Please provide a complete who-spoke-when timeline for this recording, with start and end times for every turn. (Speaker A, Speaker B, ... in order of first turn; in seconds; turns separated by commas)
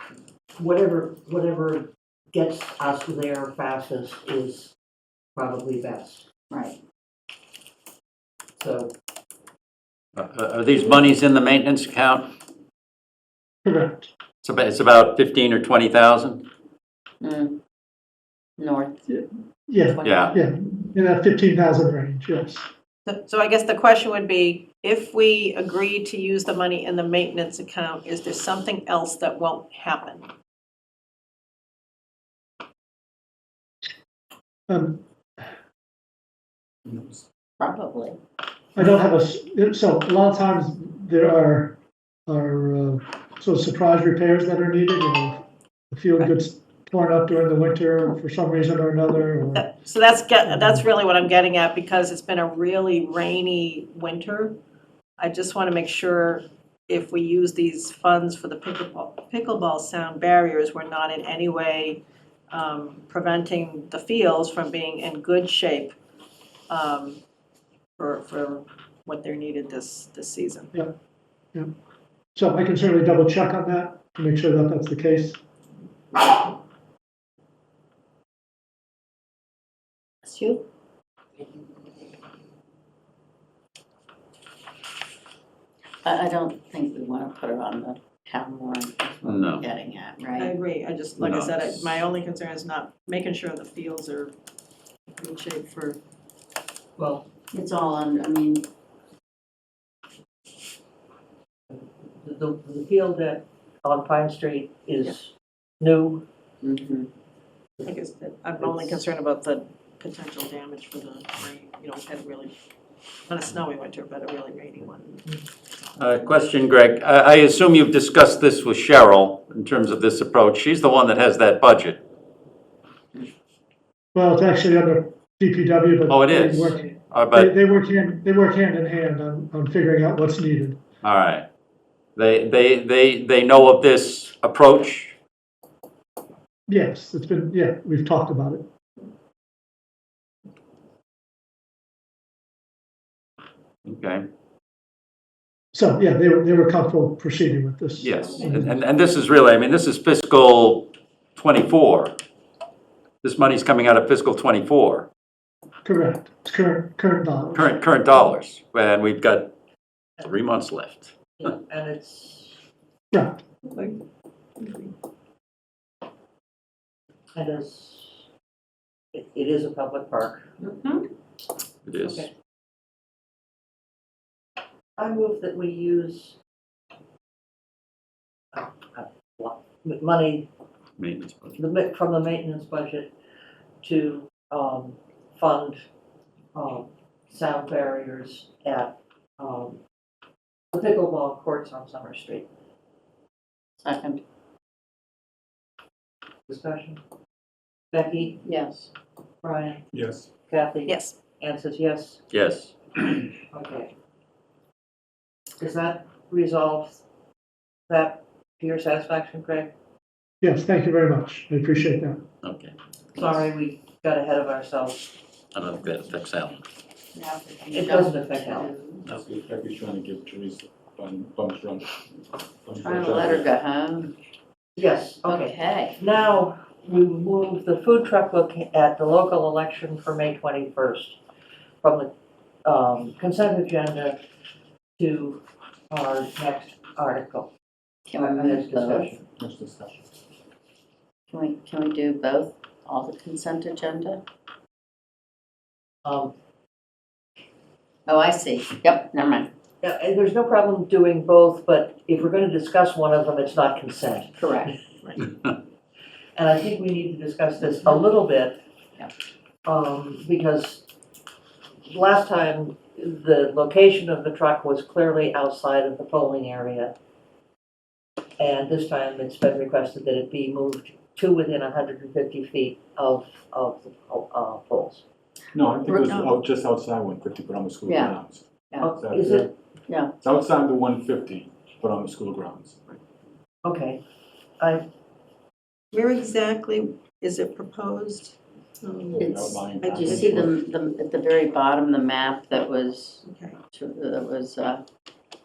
Speaker A: 0.6-4.8, Speaker A: 5.3-6.3, Speaker B: 6.5-6.8, Speaker A: 8.6-8.9, Speaker C: 10.2-12.3, Speaker D: 13.6-14.1, Speaker C: 14.4-16.5, Speaker B: 17.2-17.6, Speaker B: 18.6-19.0, Speaker D: 19.1-22.7, Speaker B: 19.9-20.3, Speaker C: 20.0-20.4, Speaker E: 23.1-30.3, Speaker D: 34.7-35.5, Speaker F: 36.9-37.2, Speaker B: 37.6-38.2, Speaker D: 38.8-49.7, Speaker E: 49.5-54.6, Speaker D: 50.5-50.9, Speaker E: 55.2-66.0, Speaker E: 66.7-67.2, Speaker E: 68.0-70.7, Speaker D: 72.3-75.4, Speaker B: 80.2-80.7, Speaker B: 86.0-90.5, Speaker C: 89.2-89.7, Speaker E: 90.4-94.3, Speaker C: 91.2-91.8, Speaker E: 95.2-96.0, Speaker A: 97.0-97.3, Speaker B: 97.5-98.6, Speaker A: 101.7-106.2, Speaker B: 106.6-107.1, Speaker E: 107.8-112.5, Speaker A: 108.6-109.0, Speaker E: 113.3-115.2, Speaker C: 116.0-122.0, Speaker D: 124.1-130.8, Speaker C: 126.1-127.5, Speaker C: 131.0-131.5, Speaker C: 132.2-135.2, Speaker D: 136.7-138.7, Speaker C: 143.8-144.3, Speaker D: 145.7-148.8, Speaker C: 148.0-152.2, Speaker C: 153.2-155.1, Speaker D: 155.8-157.7, Speaker C: 157.5-159.5, Speaker C: 160.2-161.5, Speaker A: 161.4-162.6, Speaker D: 163.1-163.4, Speaker E: 163.7-164.0, Speaker E: 164.6-164.9, Speaker A: 167.3-168.3, Speaker A: 169.1-170.5, Speaker B: 170.6-171.1, Speaker C: 171.8-172.3, Speaker A: 171.9-172.3, Speaker A: 175.0-176.4, Speaker A: 178.5-180.5, Speaker C: 181.0-181.6, Speaker A: 181.6-183.1, Speaker A: 183.8-185.8, Speaker A: 186.5-189.8, Speaker A: 190.7-192.5, Speaker B: 193.8-194.2, Speaker A: 196.5-197.0, Speaker A: 197.9-198.4, Speaker B: 198.4-198.9, Speaker A: 199.4-199.8, Speaker F: 199.9-200.3, Speaker A: 200.5-202.2, Speaker E: 200.9-201.2, Speaker C: 202.3-203.0, Speaker A: 203.5-203.9, Speaker A: 205.6-207.0, Speaker A: 207.9-209.7, Speaker D: 210.4-212.2, Speaker C: 212.4-212.8, Speaker A: 213.2-215.1, Speaker C: 215.5-216.6, Speaker B: 217.2-219.1, Speaker A: 217.7-218.7, Speaker F: 219.1-222.0, Speaker F: 222.7-223.5, Speaker B: 222.8-224.1, Speaker A: 224.8-231.2, Speaker B: 225.2-226.0, Speaker A: 231.8-232.1, Speaker A: 232.7-234.2, Speaker A: 235.0-237.5, Speaker B: 238.1-239.1, Speaker A: 238.2-239.2, Speaker F: 239.4-240.1, Speaker B: 241.3-244.2, Speaker A: 246.0-246.3, Speaker B: 248.1-249.5, Speaker A: 249.8-254.8, Speaker B: 254.4-254.7, Speaker A: 256.4-258.6, Speaker A: 259.6-260.9, Speaker A: 261.8-266.9, Speaker A: 268.4-275.1, Speaker F: 275.5-278.4, Speaker B: 275.9-276.2, Speaker B: 277.9-278.1, Speaker A: 278.8-279.5, Speaker F: 279.0-279.5, Speaker B: 279.9-280.1, Speaker F: 280.2-282.9, Speaker A: 283.6-284.0, Speaker A: 284.6-284.9, Speaker E: 285.9-289.3, Speaker F: 289.1-290.6, Speaker B: 289.2-294.8, Speaker E: 289.8-290.3, Speaker E: 293.2-293.6